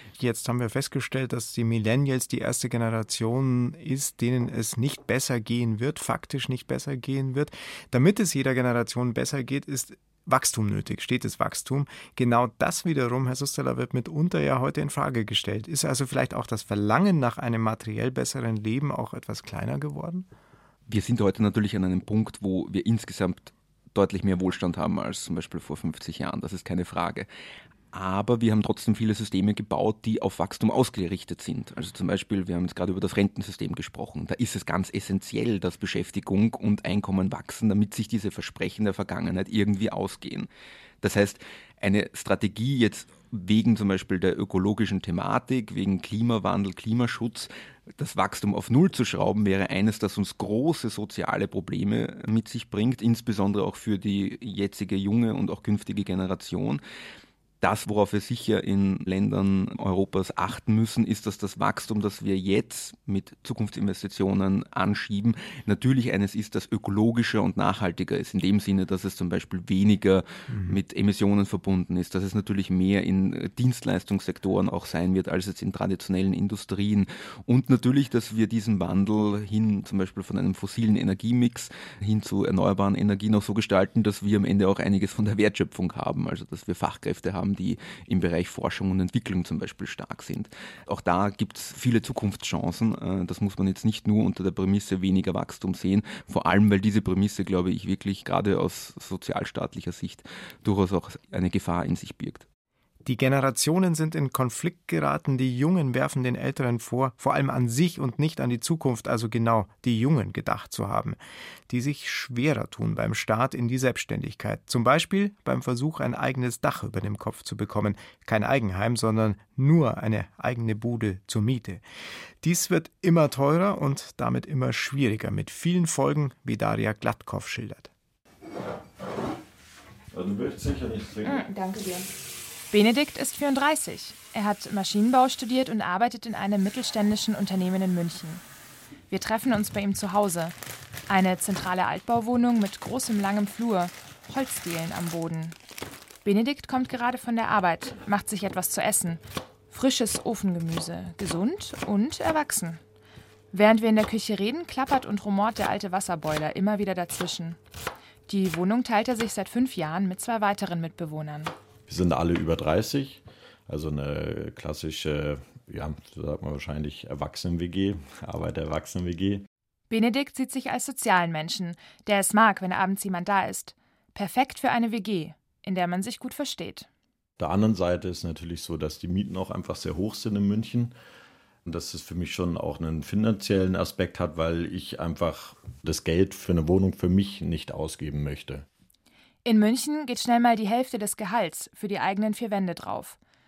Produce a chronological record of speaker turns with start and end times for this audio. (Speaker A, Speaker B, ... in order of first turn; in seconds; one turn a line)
Speaker A: 0.2-20.3
Speaker B: 20.9-27.3
Speaker B: 27.9-40.5
Speaker B: 41.0-56.8
Speaker B: 57.6-102.4
Speaker A: 70.5-70.8
Speaker A: 103.0-111.2
Speaker A: 111.7-121.8
Speaker A: 122.4-127.9
Speaker C: 130.1-131.4
Speaker D: 131.2-132.1
Speaker D: 132.7-138.4
Speaker D: 139.1-140.5
Speaker D: 141.1-145.6
Speaker D: 146.2-152.8
Speaker D: 153.5-157.6
Speaker D: 158.3-161.5
Speaker C: 161.9-169.4
Speaker D: 169.9-176.9
Speaker C: 177.4-180.9
Speaker C: 181.7-188.6
Speaker D: 189.4-193.2